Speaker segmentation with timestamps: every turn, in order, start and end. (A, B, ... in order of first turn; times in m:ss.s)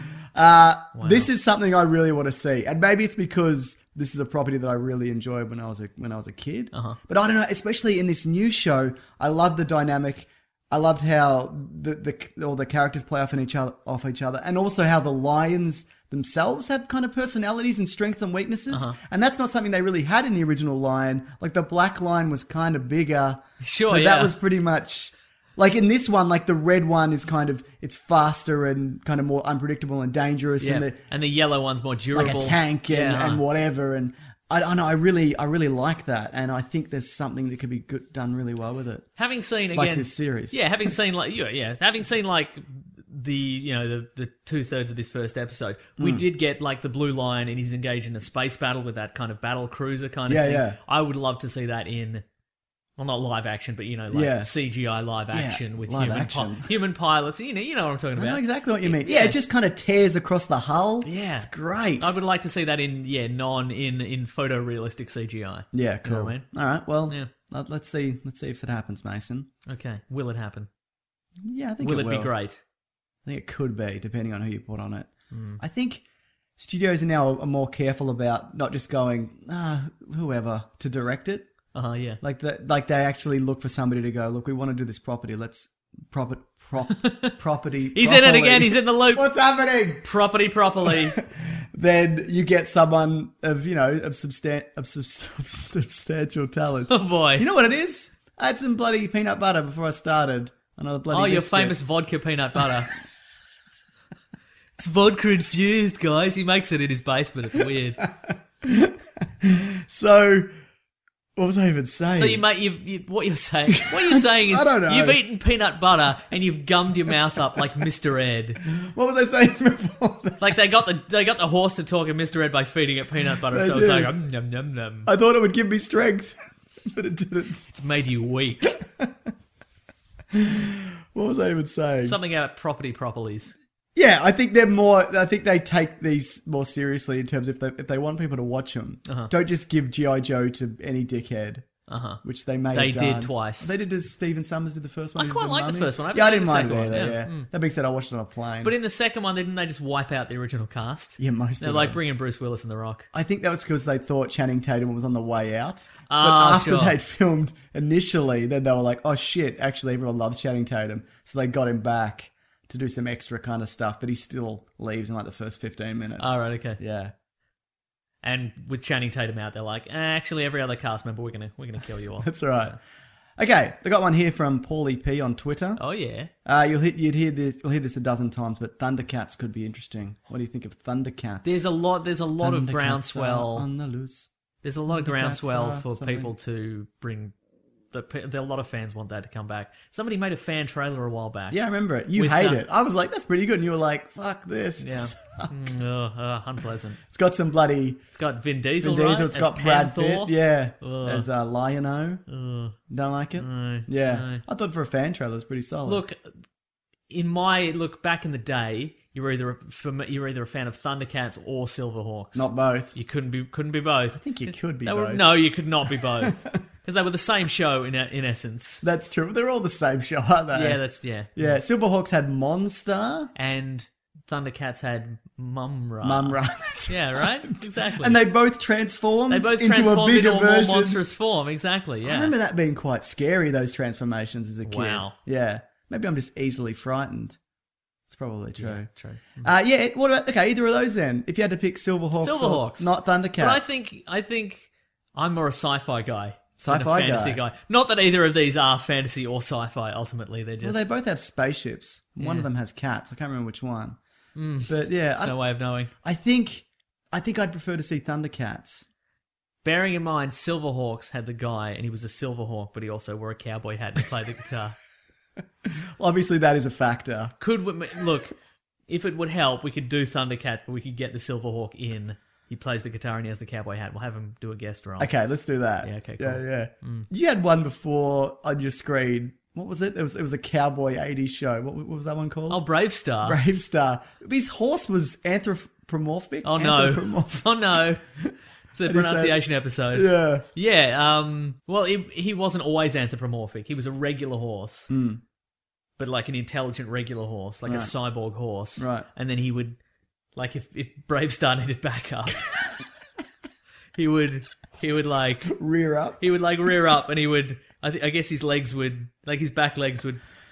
0:00.4-0:31.0 A
0:01.0-0:01.3 B
0:06.7-0:07.0 B
0:18.7-0:19.0 B
0:23.6-0:24.4 B
0:30.6-0:33.4 B
0:32.1-0:39.1 A
0:39.2-0:52.2 B
0:39.7-0:40.6 A
0:46.0-0:46.2 A
0:50.3-0:50.8 A
0:53.0-0:59.4 B
0:54.1-0:54.5 A
0:55.3-0:56.7 A
0:58.2-1:02.2 A
1:01.0-1:06.5 B
1:05.7-1:09.5 A
1:09.7-1:10.7 B
1:11.4-1:12.3 A
1:11.8-1:12.6 B
1:13.2-1:16.0 A
1:15.3-1:15.6 B
1:16.6-1:21.5 A
1:21.7-1:22.2 B
1:22.2-1:30.1 A
1:26.9-1:27.3 B
1:28.0-1:29.3 B
1:30.0-1:31.2 B
1:30.8-1:41.8 A
1:36.9-1:37.5 B
1:41.1-1:42.9 B
1:44.8-1:48.1 B
1:48.2-1:50.5 A
1:51.4-1:52.4 A
1:52.2-1:58.6 B
1:53.7-1:55.2 A
1:58.7-2:00.7 A
2:00.4-2:05.1 B
2:03.5-2:04.1 A
2:05.1-2:07.7 A
2:07.7-2:08.8 B
2:10.3-2:12.2 A
2:12.0-2:13.6 B
2:14.0-2:21.7 A
2:21.9-2:23.7 B
2:22.2-2:28.7 A
2:25.2-2:27.5 B
2:28.6-2:33.1 B
2:31.2-2:32.0 A
2:33.1-2:47.1 A
2:36.1-2:37.0 B
2:46.2-2:46.8 B
2:48.2-2:52.7 B
2:52.2-2:52.8 A
2:53.4-2:55.8 A
2:55.8-2:56.3 B
2:56.5-3:01.6 A
3:01.4-3:03.7 B
3:02.4-3:04.3 A
3:04.6-3:07.3 B
3:04.9-3:06.3 A
3:07.9-3:11.6 B
3:11.5-3:15.8 A
3:12.1-3:12.6 B
3:14.8-3:17.0 B
3:17.1-3:18.0 A
3:18.1-3:21.3 B
3:18.8-3:22.2 A
3:22.3-3:22.8 B
3:22.9-3:26.0 A
3:23.4-3:24.4 B
3:25.8-3:26.2 B
3:27.1-3:38.8 B
3:32.4-3:32.9 A
3:34.2-3:35.2 A
3:38.8-3:40.8 A
3:40.5-3:41.6 B
3:41.4-3:43.3 A
3:43.4-3:48.2 B
3:46.0-3:51.0 A
3:49.3-3:52.3 B
3:52.0-3:57.4 A
3:54.6-3:55.2 B
3:58.1-3:58.9 A
3:58.6-3:59.5 B
3:59.4-4:03.8 A
4:02.2-4:10.8 B
4:06.6-4:07.4 A
4:10.6-4:14.0 A
4:12.2-4:12.5 B
4:14.4-4:15.9 B
4:14.7-4:15.4 A
4:16.0-4:18.9 A
4:19.6-4:24.8 B
4:26.0-4:27.3 A
4:27.4-4:28.3 B
4:28.9-4:35.1 B
4:35.0-4:42.6 A
4:35.8-4:37.1 B
4:42.5-4:43.4 B
4:43.2-4:47.5 A
4:46.4-4:48.0 B
4:48.7-4:54.9 B
4:48.8-4:49.4 A
4:49.9-4:50.4 A
4:54.9-4:55.2 A
4:56.0-4:59.8 B
4:57.7-4:57.9 A
4:58.8-4:59.1 A
5:00.4-5:02.7 B
5:04.0-5:05.6 B
5:05.5-5:06.2 A
5:06.2-5:10.2 B